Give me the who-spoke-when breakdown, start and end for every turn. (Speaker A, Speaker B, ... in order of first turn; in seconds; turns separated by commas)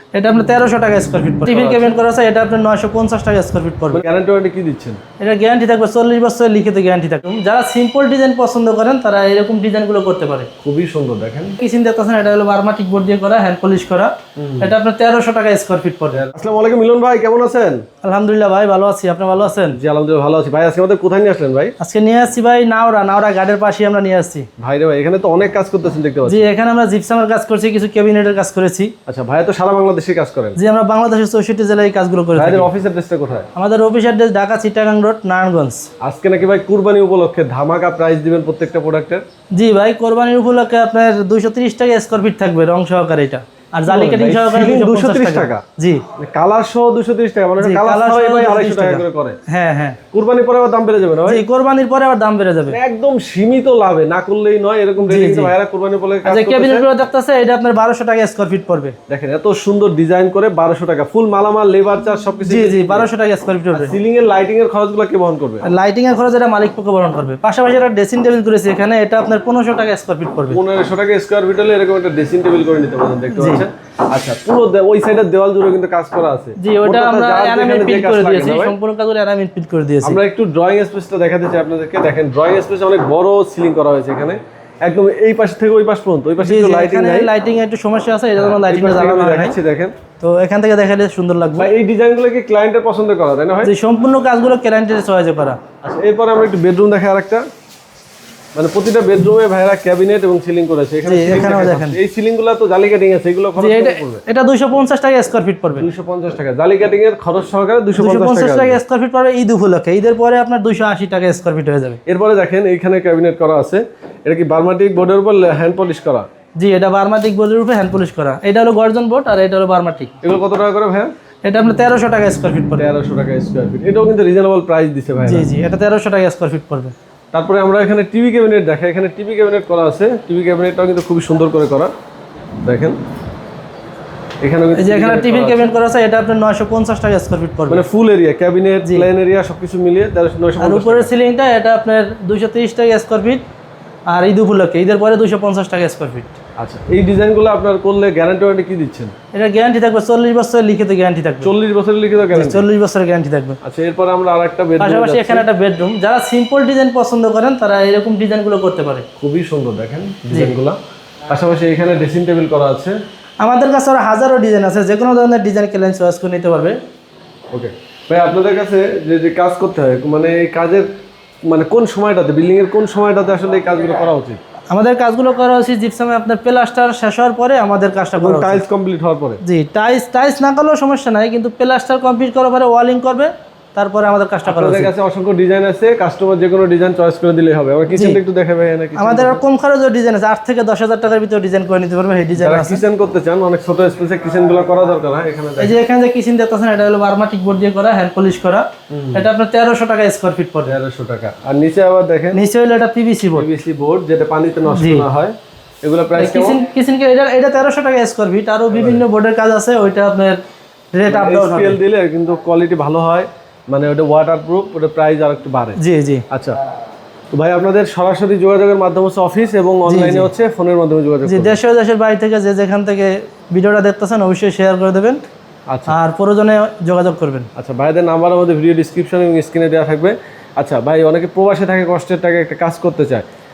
Speaker A: 0.1-4.0, Speaker B: 1.5-1.9, Speaker B: 3.9-5.0, Speaker A: 5.2-10.5, Speaker B: 10.6-11.6, Speaker A: 11.6-16.2, Speaker B: 14.4-14.7, Speaker B: 16.1-17.8, Speaker A: 18.0-19.8, Speaker B: 19.8-21.7, Speaker A: 21.8-24.5, Speaker B: 24.6-26.5, Speaker A: 26.2-28.9, Speaker B: 29.1-30.6, Speaker A: 30.6-32.7, Speaker B: 32.3-33.5, Speaker A: 33.5-35.9, Speaker B: 36.0-39.2, Speaker A: 39.5-46.0, Speaker B: 43.9-45.6, Speaker B: 46.2-49.4, Speaker A: 47.6-50.0, Speaker B: 50.1-51.4, Speaker A: 51.3-52.8, Speaker B: 52.7-56.9, Speaker A: 55.0-55.5, Speaker A: 56.2-59.0, Speaker B: 59.1-63.1, Speaker A: 62.5-63.9, Speaker B: 63.7-65.6, Speaker A: 65.6-70.6, Speaker B: 70.5-78.8, Speaker A: 73.3-73.6, Speaker A: 76.6-80.2, Speaker B: 80.0-87.3, Speaker A: 86.4-89.5, Speaker B: 88.4-90.0, Speaker A: 90.2-91.7, Speaker B: 91.6-93.7, Speaker A: 93.6-95.6, Speaker B: 95.8-97.4, Speaker B: 98.5-104.2, Speaker A: 101.0-102.0, Speaker A: 103.6-105.9, Speaker B: 105.7-108.8, Speaker A: 107.9-112.0, Speaker B: 112.0-116.3, Speaker A: 116.6-120.1, Speaker B: 120.2-121.1, Speaker A: 121.4-122.9, Speaker B: 122.8-125.5, Speaker A: 125.2-126.9, Speaker B: 127.3-131.9, Speaker B: 132.6-133.0, Speaker B: 134.4-135.6, Speaker A: 134.8-137.8, Speaker B: 137.7-141.1, Speaker A: 138.8-139.1, Speaker A: 140.6-143.4, Speaker A: 144.1-146.3, Speaker B: 146.6-149.1, Speaker A: 149.3-151.5, Speaker B: 151.4-152.7, Speaker A: 152.3-153.6, Speaker B: 153.6-155.5, Speaker A: 154.8-159.1, Speaker B: 159.2-160.8, Speaker B: 161.3-163.0, Speaker A: 163.4-166.8, Speaker B: 167.5-170.9, Speaker B: 171.5-174.4, Speaker A: 174.7-178.6, Speaker B: 178.2-179.4, Speaker A: 179.4-184.9, Speaker B: 184.4-189.4, Speaker A: 187.9-188.2, Speaker A: 189.0-192.8, Speaker B: 192.4-195.8, Speaker A: 195.6-200.8, Speaker B: 198.9-199.3, Speaker B: 200.7-202.4, Speaker A: 202.3-203.5, Speaker B: 203.3-206.6, Speaker A: 204.7-205.1, Speaker A: 206.2-210.4, Speaker B: 208.7-209.0, Speaker A: 210.9-211.8, Speaker B: 211.1-215.8, Speaker A: 215.8-216.2, Speaker B: 216.3-216.6, Speaker B: 217.3-221.6, Speaker A: 219.8-220.3, Speaker A: 221.2-225.2, Speaker B: 225.7-225.9, Speaker A: 225.9-227.5, Speaker B: 227.6-233.2